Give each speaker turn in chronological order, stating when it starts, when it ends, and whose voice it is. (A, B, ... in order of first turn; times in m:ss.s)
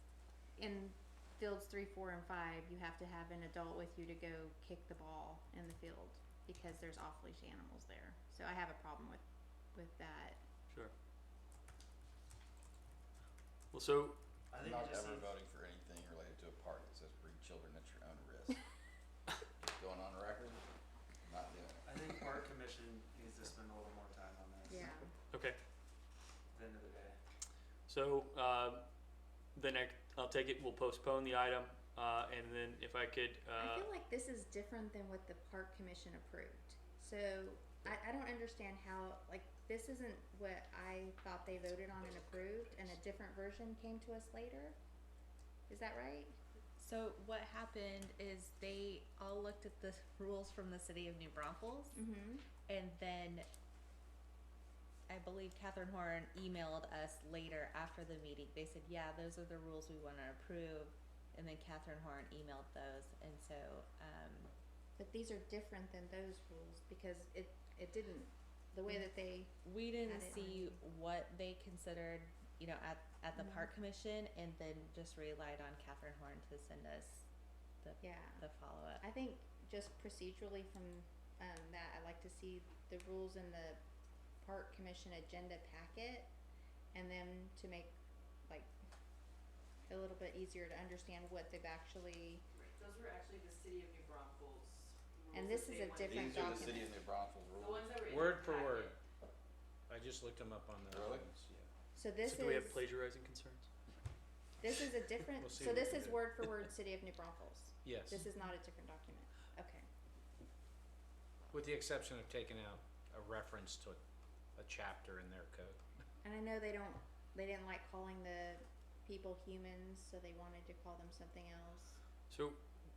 0:00.6-0:09.2 A
0:09.7-0:10.4 A
0:13.7-0:14.2 B
0:14.5-0:15.3 C
0:14.5-0:18.6 D
0:19.6-0:20.6 D
0:21.2-0:22.1 D
0:21.8-0:25.0 C
0:24.7-0:25.1 A
0:25.3-0:25.6 B
0:26.5-0:27.2 C
0:27.9-0:28.8 B
0:29.6-0:33.9 B
0:33.6-0:44.8 A
0:42.0-0:42.6 D
0:45.7-0:46.4 A
0:46.8-0:52.0 E
0:51.9-0:52.4 A
0:52.7-0:53.5 E
0:55.1-1:04.5 E
1:05.0-1:10.8 A
1:09.6-1:17.2 E
1:13.4-1:13.7 A
1:17.8-1:19.0 E
1:18.0-1:18.4 A
1:19.0-1:23.8 A
1:24.4-1:26.3 A
1:26.9-1:27.9 A
1:29.9-1:32.4 A
1:32.6-1:36.8 F
1:35.3-1:36.9 A
1:36.0-1:38.1 D
1:37.6-1:39.0 F
1:38.0-1:39.0 G
1:39.9-1:41.6 G
1:40.9-1:41.3 D
1:42.0-1:42.8 A
1:42.2-1:43.7 B
1:44.6-1:49.9 A
1:45.4-1:46.3 G
1:47.8-1:48.3 G
1:51.5-1:54.0 G
1:54.6-1:55.8 G
1:56.2-2:02.0 A
2:02.3-2:02.6 B